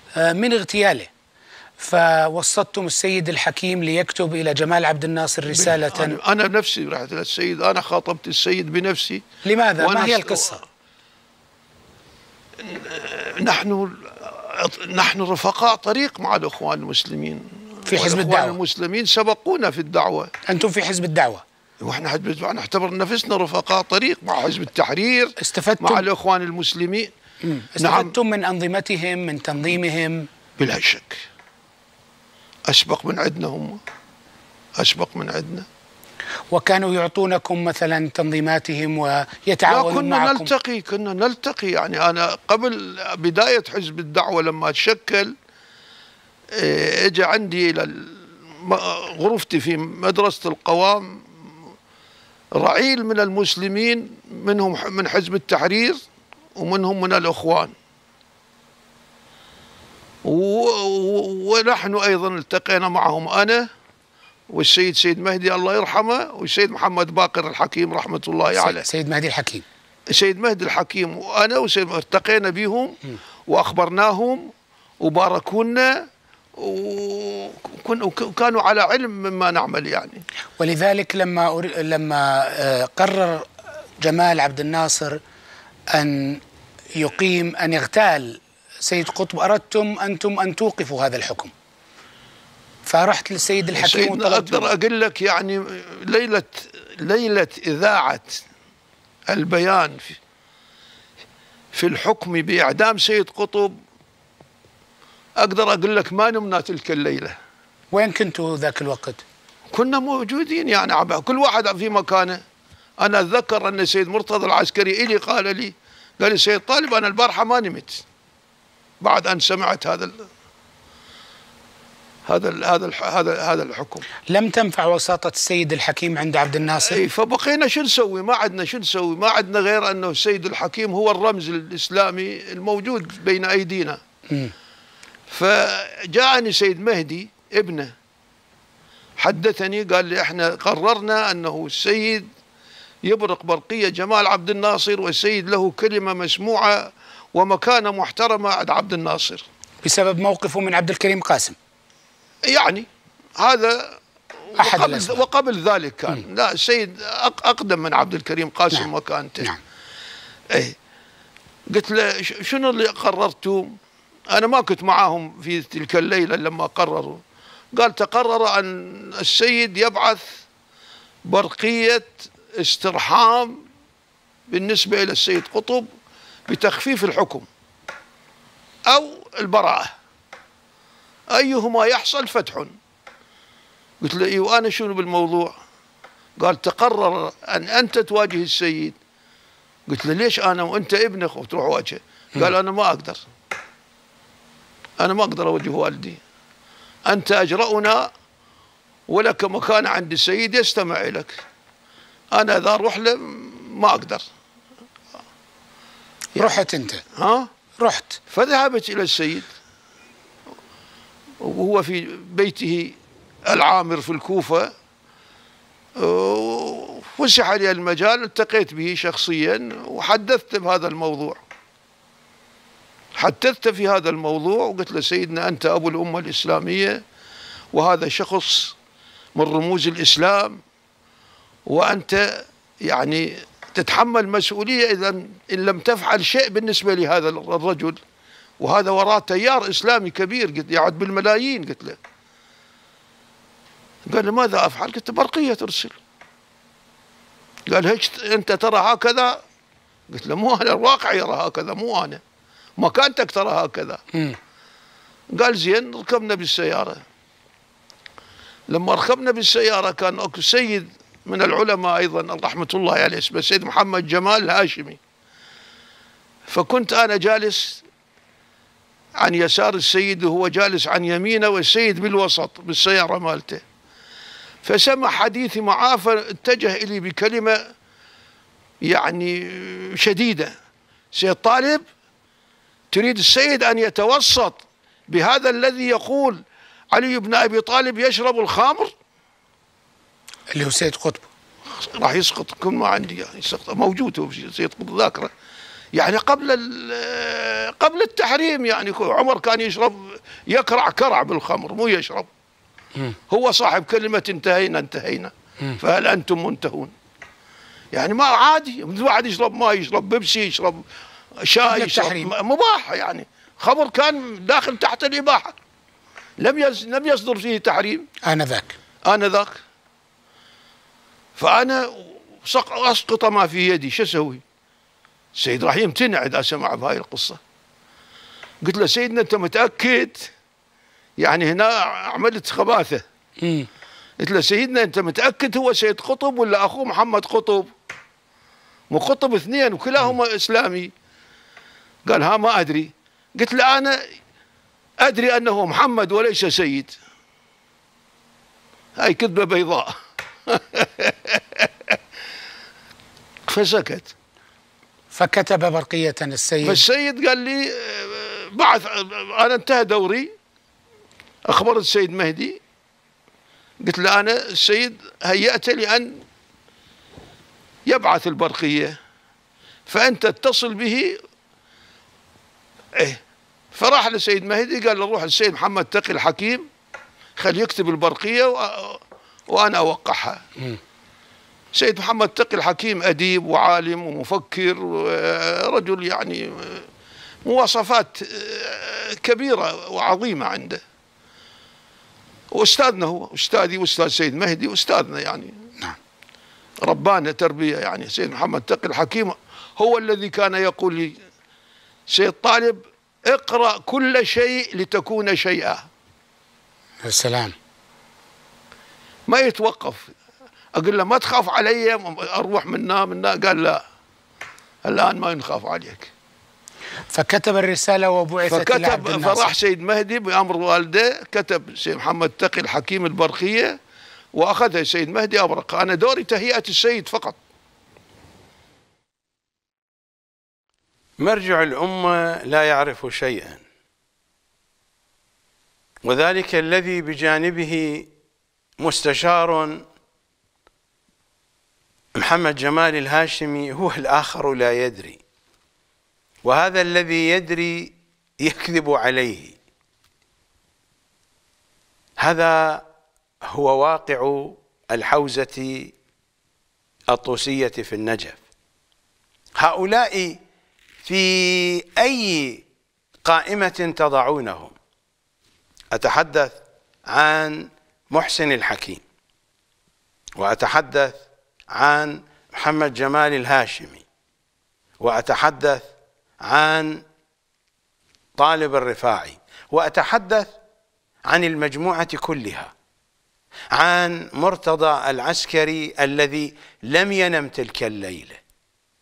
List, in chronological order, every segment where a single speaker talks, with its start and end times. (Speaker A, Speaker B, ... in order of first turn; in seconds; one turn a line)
Speaker A: 0.1-1.1
Speaker A: 1.8-6.2
Speaker B: 5.5-9.2
Speaker A: 9.4-10.6
Speaker B: 9.8-10.6
Speaker B: 12.6-20.3
Speaker A: 17.9-18.6
Speaker A: 20.5-21.4
Speaker B: 21.8-27.1
Speaker A: 25.4-26.0
Speaker A: 27.4-30.3
Speaker B: 27.8-28.1
Speaker B: 30.6-31.2
Speaker B: 32.7-33.8
Speaker B: 34.8-35.7
Speaker A: 36.5-40.5
Speaker B: 39.7-45.3
Speaker B: 46.5-51.3
Speaker B: 52.6-56.0
Speaker B: 56.5-57.7
Speaker B: 60.2-63.7
Speaker B: 64.5-68.8
Speaker A: 68.5-69.6
Speaker B: 70.1-80.2
Speaker A: 80.6-85.2
Speaker A: 85.9-86.4
Speaker A: 87.0-91.5
Speaker A: 92.8-94.7
Speaker B: 93.8-98.4
Speaker B: 99.3-100.2
Speaker B: 101.7-103.8
Speaker B: 105.4-107.3
Speaker A: 107.9-109.2
Speaker B: 109.7-112.4
Speaker B: 113.0-118.0
Speaker B: 119.0-120.3
Speaker B: 122.3-124.0
Speaker A: 124.3-127.0
Speaker B: 126.8-134.0
Speaker B: 135.3-137.9
Speaker B: 139.2-142.3
Speaker B: 143.0-149.5
Speaker A: 149.8-151.6
Speaker B: 152.4-159.5
Speaker A: 154.6-155.2
Speaker B: 161.7-163.8
Speaker B: 164.3-167.2
Speaker B: 167.7-170.4
Speaker B: 171.2-173.6
Speaker B: 174.5-175.9
Speaker B: 176.5-177.5
Speaker B: 178.9-179.9
Speaker B: 181.3-182.7
Speaker B: 184.0-185.6
Speaker B: 186.4-188.9
Speaker B: 189.9-193.3
Speaker B: 195.0-196.2
Speaker B: 197.1-198.1
Speaker B: 199.1-201.4
Speaker B: 202.3-204.3
Speaker A: 206.3-207.0
Speaker B: 207.1-207.5
Speaker A: 207.8-208.2
Speaker B: 208.3-209.5
Speaker B: 211.4-212.9
Speaker B: 213.5-214.7
Speaker B: 216.0-221.4
Speaker B: 223.1-227.0
Speaker B: 227.7-228.7
Speaker B: 229.3-230.6
Speaker B: 231.7-238.0
Speaker B: 238.6-242.0
Speaker B: 244.1-246.0
Speaker B: 247.7-249.4
Speaker B: 250.1-252.2
Speaker B: 252.8-254.0
Speaker B: 255.3-257.0
Speaker B: 258.7-265.0
Speaker B: 266.4-267.8
Speaker B: 269.2-273.6
Speaker B: 274.6-277.7
Speaker B: 278.8-280.5
Speaker B: 281.1-281.9
Speaker B: 282.9-288.9
Speaker A: 290.5-291.3
Speaker B: 291.7-295.3
Speaker B: 295.9-302.3
Speaker B: 303.3-306.9
Speaker B: 307.9-310.8
Speaker B: 311.4-315.5
Speaker A: 311.7-312.3
Speaker B: 316.4-318.1
Speaker A: 318.2-318.7
Speaker B: 319.0-319.6
Speaker B: 321.4-324.4
Speaker B: 325.3-327.4
Speaker B: 328.6-330.3
Speaker B: 331.2-333.0
Speaker A: 333.4-333.7
Speaker B: 334.2-337.7
Speaker B: 338.9-340.9
Speaker B: 342.0-344.0
Speaker B: 345.0-346.9
Speaker B: 348.9-352.0
Speaker B: 353.5-354.1
Speaker A: 355.1-356.8
Speaker B: 356.6-360.3
Speaker B: 361.4-362.6
Speaker B: 363.8-366.2
Speaker B: 367.9-369.0
Speaker B: 369.9-371.2
Speaker B: 372.9-373.2
Speaker B: 373.7-376.7
Speaker B: 377.4-380.4
Speaker B: 381.7-386.9
Speaker B: 387.4-390.8
Speaker B: 392.5-395.7
Speaker B: 396.8-401.2
Speaker B: 402.1-405.9
Speaker A: 407.0-407.5
Speaker B: 409.3-410.1
Speaker B: 410.7-413.8
Speaker B: 414.8-416.1
Speaker A: 417.1-419.5
Speaker B: 418.5-423.8
Speaker B: 424.3-427.4
Speaker C: 431.2-433.6
Speaker C: 436.0-438.1
Speaker C: 438.8-439.8
Speaker C: 442.2-445.2
Speaker C: 446.4-449.6
Speaker C: 452.2-452.8
Speaker C: 453.5-455.9
Speaker C: 457.1-458.4
Speaker C: 459.6-460.4
Speaker C: 461.0-462.6
Speaker C: 463.2-464.7
Speaker C: 465.9-466.6
Speaker C: 467.1-469.0
Speaker C: 470.4-471.2
Speaker C: 471.7-474.0
Speaker C: 475.0-475.8
Speaker C: 476.4-477.0
Speaker C: 478.4-480.5
Speaker C: 481.3-482.7
Speaker C: 483.7-488.4